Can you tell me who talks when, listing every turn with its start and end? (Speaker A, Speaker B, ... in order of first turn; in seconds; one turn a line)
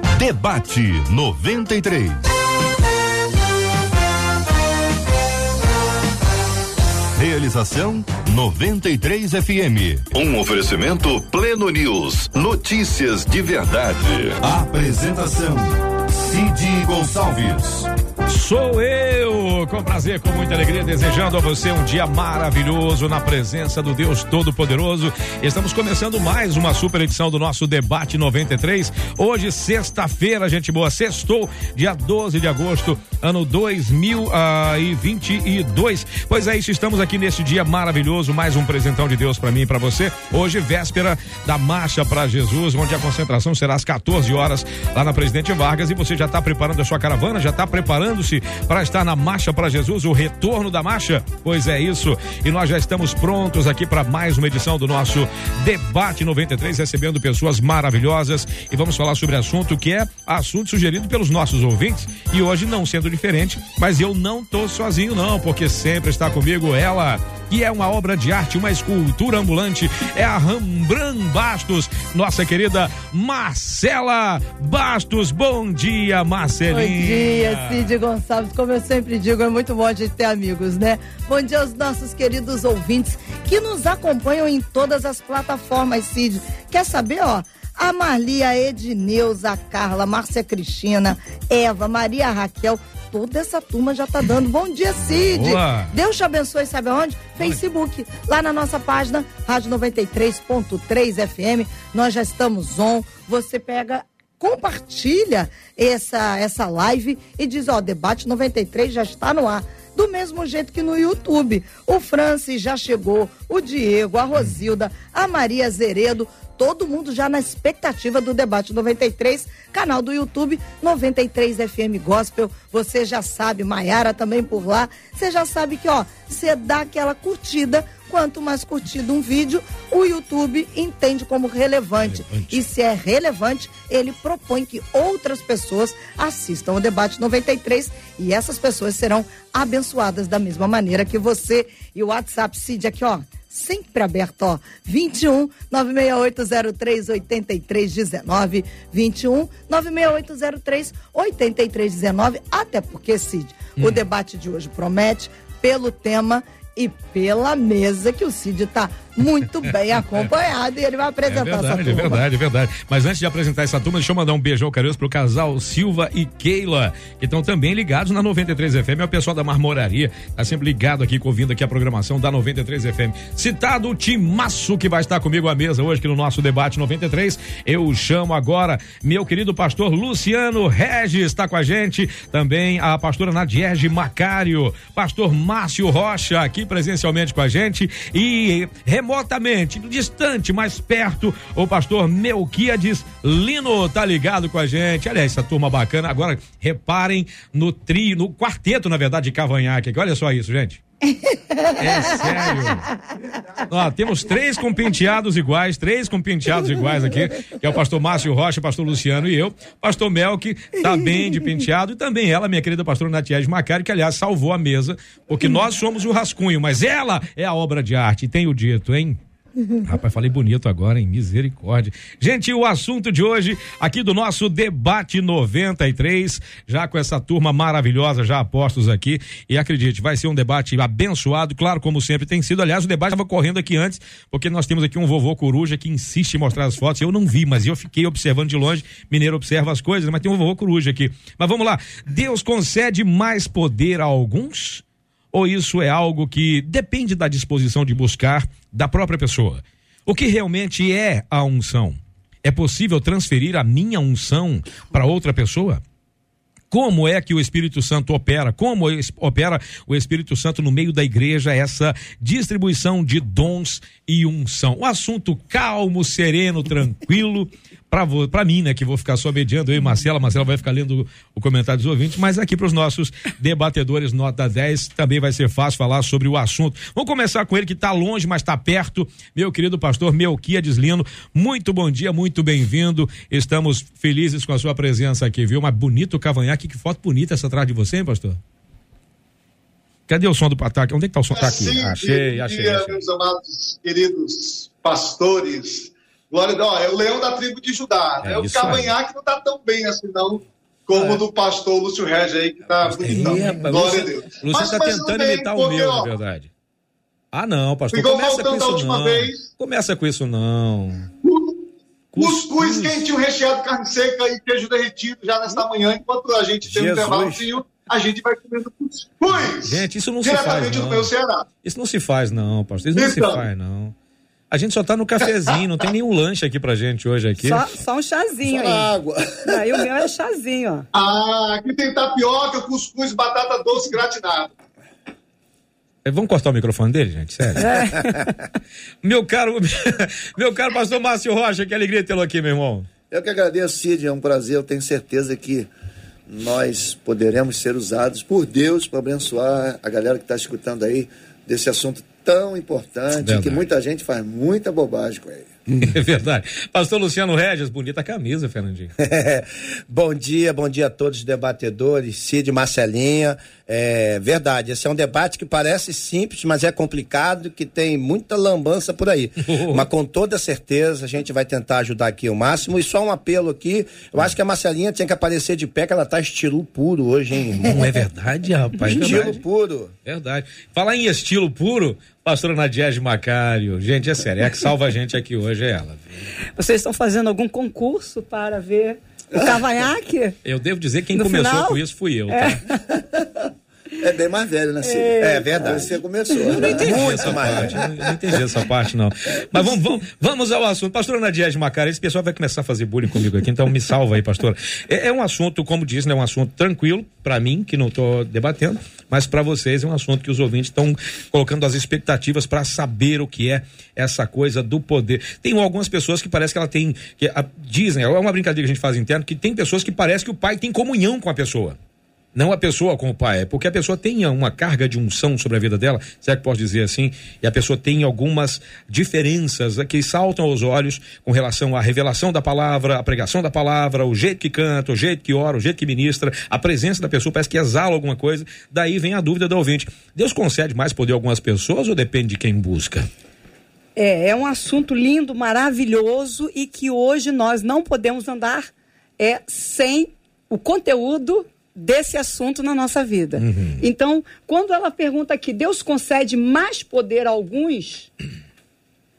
Speaker A: 0.2-2.2
Speaker A: 7.1-17.9
Speaker B: 18.3-77.9
Speaker C: 76.7-162.2
Speaker B: 95.0-95.9
Speaker B: 132.0-132.6
Speaker B: 153.8-154.0
Speaker B: 161.2-200.8
Speaker C: 201.3-201.7
Speaker B: 201.8-202.9
Speaker B: 203.7-219.2
Speaker B: 219.8-255.8
Speaker B: 256.7-288.4
Speaker B: 290.1-293.0
Speaker D: 291.3-306.1
Speaker B: 298.2-298.9
Speaker B: 300.9-301.2
Speaker B: 302.8-306.5
Speaker B: 307.3-311.1
Speaker D: 307.9-309.5
Speaker D: 311.2-321.4
Speaker B: 312.1-313.1
Speaker E: 316.6-317.4
Speaker B: 319.3-321.1
Speaker B: 321.6-323.9
Speaker D: 322.9-323.5
Speaker B: 324.5-327.6
Speaker D: 325.2-325.7
Speaker F: 327.4-328.9
Speaker G: 328.4-329.6
Speaker F: 329.4-330.9
Speaker D: 330.9-334.5
Speaker B: 336.0-338.1
Speaker F: 337.6-338.3
Speaker B: 339.0-342.9
Speaker G: 343.1-345.7
Speaker G: 346.3-355.5
Speaker B: 353.2-353.6
Speaker B: 355.8-358.9
Speaker E: 359.0-378.0
Speaker B: 369.5-369.9
Speaker B: 377.6-379.4
Speaker E: 378.8-379.9
Speaker B: 380.0-386.0
Speaker F: 386.6-390.4
Speaker B: 390.4-392.6
Speaker F: 391.1-392.7
Speaker G: 394.0-398.1
Speaker F: 394.8-395.8
Speaker E: 395.2-395.9
Speaker F: 396.4-397.2
Speaker E: 396.6-397.8
Speaker B: 396.8-421.8
Speaker B: 422.3-443.1
Speaker F: 443.9-458.1
Speaker B: 453.4-453.8